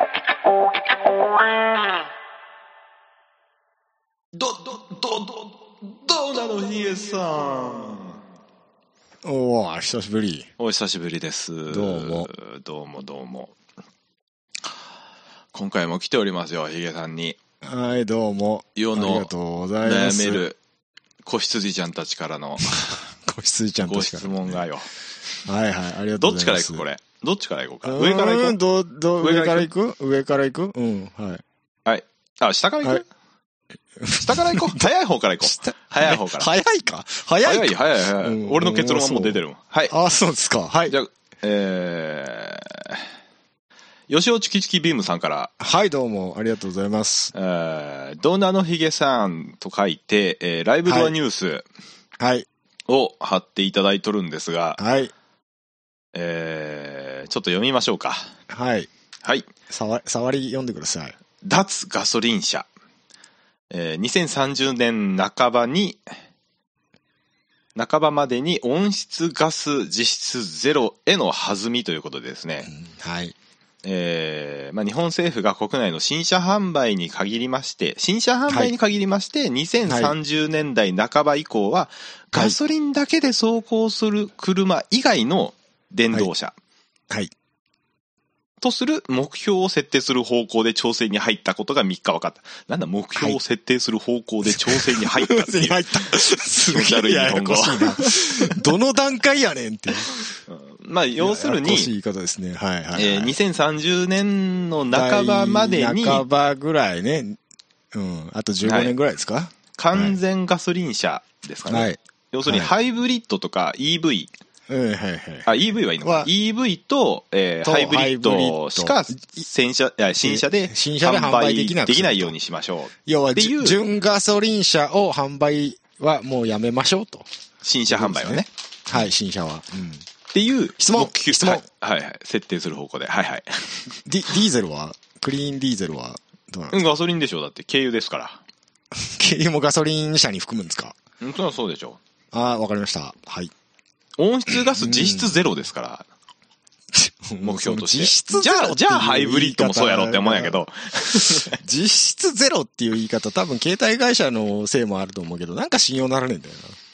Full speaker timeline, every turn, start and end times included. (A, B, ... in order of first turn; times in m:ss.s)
0:04.3-0:08.2 A
0:09.2-0:10.5 B
0:10.6-0:13.5 A
0:11.7-0:12.3 B
0:15.5-0:17.4 A
0:17.6-0:20.4 B
0:18.8-0:19.3 A
0:19.8-0:20.6 A
0:21.2-0:23.0 A
0:22.6-0:24.7 B
0:23.8-0:24.9 A
0:25.4-0:26.8 B
0:26.2-0:28.6 A
0:27.8-0:31.4 B
0:29.2-0:29.7 A
0:31.9-0:33.1 A
0:34.0-0:34.8 B
0:34.2-0:36.5 A
0:35.4-0:41.0 B
0:37.4-0:39.9 A
0:40.9-0:43.0 A
0:44.1-0:45.5 A
0:45.6-0:47.3 B
0:47.3-0:51.7 A
0:50.9-0:51.2 B
0:52.2-0:52.5 B
0:52.9-0:54.8 A
0:54.8-0:55.1 B
0:56.1-0:58.3 A
0:58.5-0:58.9 B
0:59.2-0:59.5 A
0:59.7-1:01.2 B
1:01.4-1:02.7 A
1:03.7-1:06.1 A
1:07.8-1:12.7 A
1:12.7-1:13.4 B
1:13.8-1:26.6 A
1:18.5-1:18.7 B
1:19.9-1:20.2 B
1:28.6-1:38.6 A
1:34.4-1:40.2 B
1:40.4-1:41.9 A
1:41.2-1:43.4 B
1:42.9-1:46.2 A
1:44.9-1:47.4 B
1:47.9-1:50.2 B
1:48.6-1:49.0 A
1:49.8-1:54.3 A
1:51.7-1:52.7 B
1:54.7-1:56.3 B
1:55.5-2:03.8 A
1:57.6-1:59.4 B
2:00.2-2:02.3 B
2:03.0-2:07.3 B
2:07.6-2:09.0 A
2:07.9-2:10.1 B
2:10.3-2:14.0 A
2:10.8-2:11.6 B
2:14.0-2:16.9 B
2:16.7-2:18.4 A
2:18.9-2:21.0 B
2:21.2-2:22.0 A
2:22.3-2:23.5 B
2:24.2-2:26.1 A
2:24.5-2:25.4 B
2:26.9-2:30.6 B
2:27.4-2:31.6 A
2:31.1-2:36.8 B